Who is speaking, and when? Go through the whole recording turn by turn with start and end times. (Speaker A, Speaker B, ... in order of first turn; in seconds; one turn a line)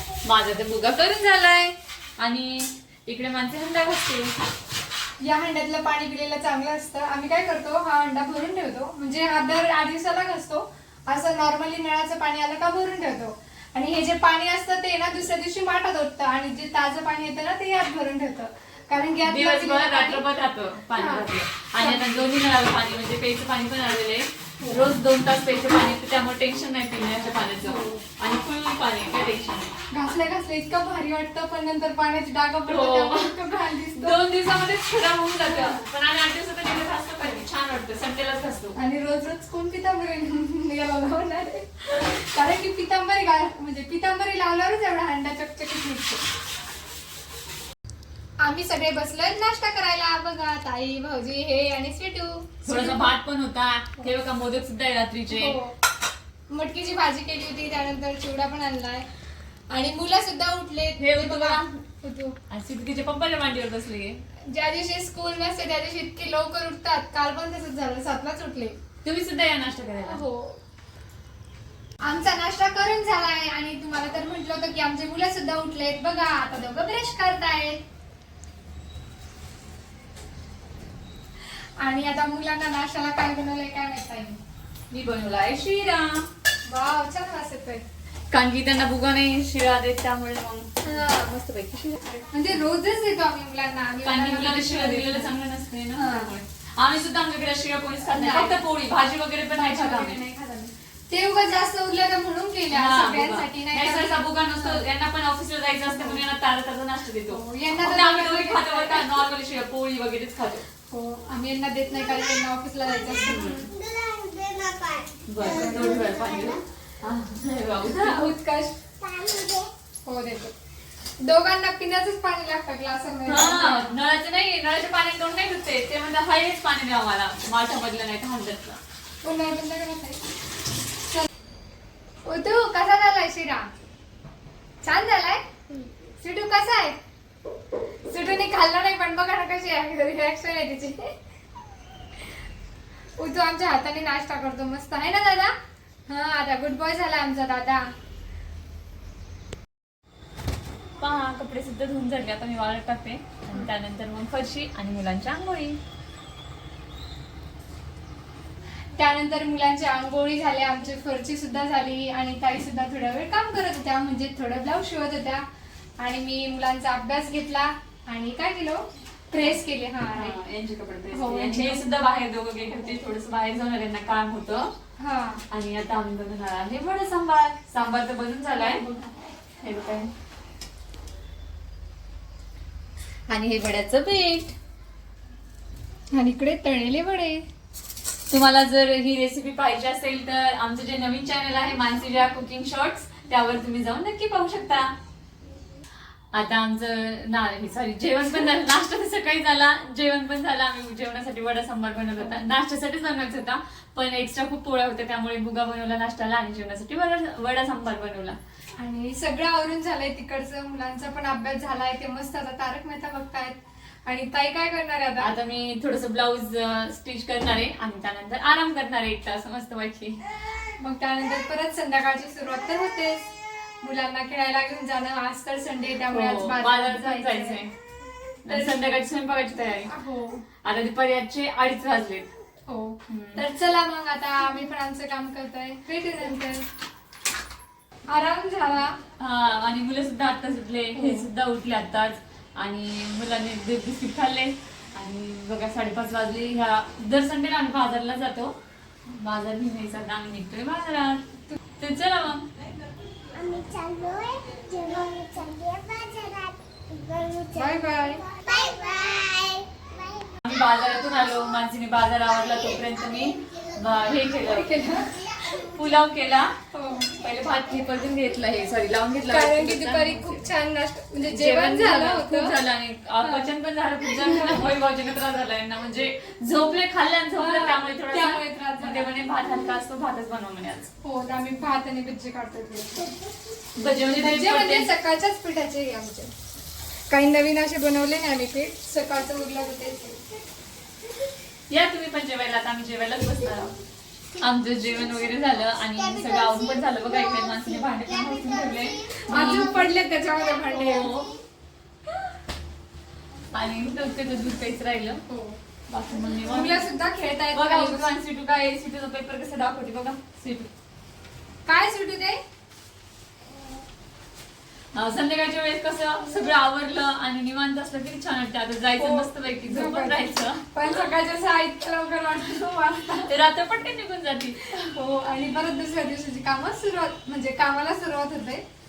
Speaker A: 0.2-4.3
Speaker B: 5.2-20.2
Speaker A: 19.2-29.7
Speaker B: 20.9-21.3
Speaker B: 21.8-22.1
Speaker B: 24.6-24.9
Speaker B: 27.6-28.0
Speaker B: 29.9-34.2
Speaker A: 32.6-38.8
Speaker B: 35.4-35.8
Speaker B: 38.8-46.2
Speaker B: 48.4-53.1
Speaker A: 52.6-55.6
Speaker B: 55.3-55.7
Speaker B: 56.5-59.1
Speaker B: 59.7-62.4
Speaker A: 61.0-61.8
Speaker A: 62.5-64.2
Speaker B: 64.4-68.8
Speaker A: 69.0-70.2
Speaker B: 70.0-70.6
Speaker B: 72.0-77.8
Speaker B: 81.8-84.4
Speaker A: 84.9-86.2
Speaker B: 86.7-87.8
Speaker A: 88.3-92.5
Speaker B: 90.8-91.3
Speaker B: 92.3-95.3
Speaker A: 94.0-100.2
Speaker B: 96.0-96.3
Speaker B: 98.1-98.6
Speaker B: 99.5-104.8
Speaker A: 102.7-110.6
Speaker B: 105.9-106.2
Speaker B: 107.3-109.1
Speaker B: 110.9-113.7
Speaker A: 113.2-113.7
Speaker C: 113.7-116.6
Speaker A: 115.3-118.3
Speaker B: 115.5-116.0
Speaker B: 117.9-118.8
Speaker C: 119.0-119.7
Speaker B: 120.0-120.5
Speaker B: 121.2-123.9
Speaker A: 123.2-128.8
Speaker B: 129.2-130.2
Speaker B: 132.2-133.7
Speaker B: 134.8-135.5
Speaker B: 136.2-137.0
Speaker B: 138.0-141.0
Speaker B: 143.2-145.5
Speaker B: 146.1-147.9
Speaker A: 151.0-155.8
Speaker B: 159.0-165.4
Speaker B: 166.0-170.4
Speaker A: 170.1-174.7
Speaker B: 171.1-171.8
Speaker B: 175.0-175.4
Speaker A: 175.5-178.9
Speaker B: 178.5-179.1
Speaker A: 179.6-180.1
Speaker A: 183.3-184.5
Speaker B: 186.1-187.4
Speaker A: 188.3-194.9
Speaker A: 196.3-208.4
Speaker B: 208.8-215.3
Speaker A: 215.2-220.2
Speaker B: 220.8-223.2
Speaker B: 223.8-227.6
Speaker A: 226.1-227.7
Speaker A: 228.4-229.9
Speaker B: 228.5-228.8
Speaker B: 229.9-230.4
Speaker A: 230.6-232.3
Speaker B: 232.7-236.7
Speaker A: 233.1-233.4
Speaker B: 238.1-239.0
Speaker A: 239.2-248.5
Speaker B: 240.9-241.3
Speaker A: 249.1-251.2
Speaker A: 251.8-252.5
Speaker C: 253.3-260.3
Speaker B: 257.5-258.2
Speaker A: 260.4-266.5
Speaker B: 264.4-265.4
Speaker B: 266.7-267.1
Speaker A: 267.1-270.5
Speaker B: 269.3-272.6
Speaker A: 271.2-280.9
Speaker B: 273.2-273.5
Speaker B: 274.1-274.7
Speaker B: 277.4-279.1
Speaker B: 281.0-283.1
Speaker A: 283.8-284.9
Speaker B: 284.1-286.3
Speaker B: 287.1-290.2
Speaker A: 291.7-293.8
Speaker A: 294.4-299.8
Speaker C: 296.1-299.2
Speaker B: 299.2-301.1
Speaker C: 299.8-301.4
Speaker A: 300.7-301.3
Speaker A: 303.5-305.2
Speaker B: 305.3-305.6
Speaker A: 305.9-306.9
Speaker B: 306.5-308.1
Speaker A: 307.5-310.7
Speaker B: 311.6-312.4
Speaker A: 314.9-321.0
Speaker B: 319.0-323.3
Speaker A: 323.2-324.9
Speaker B: 324.9-328.6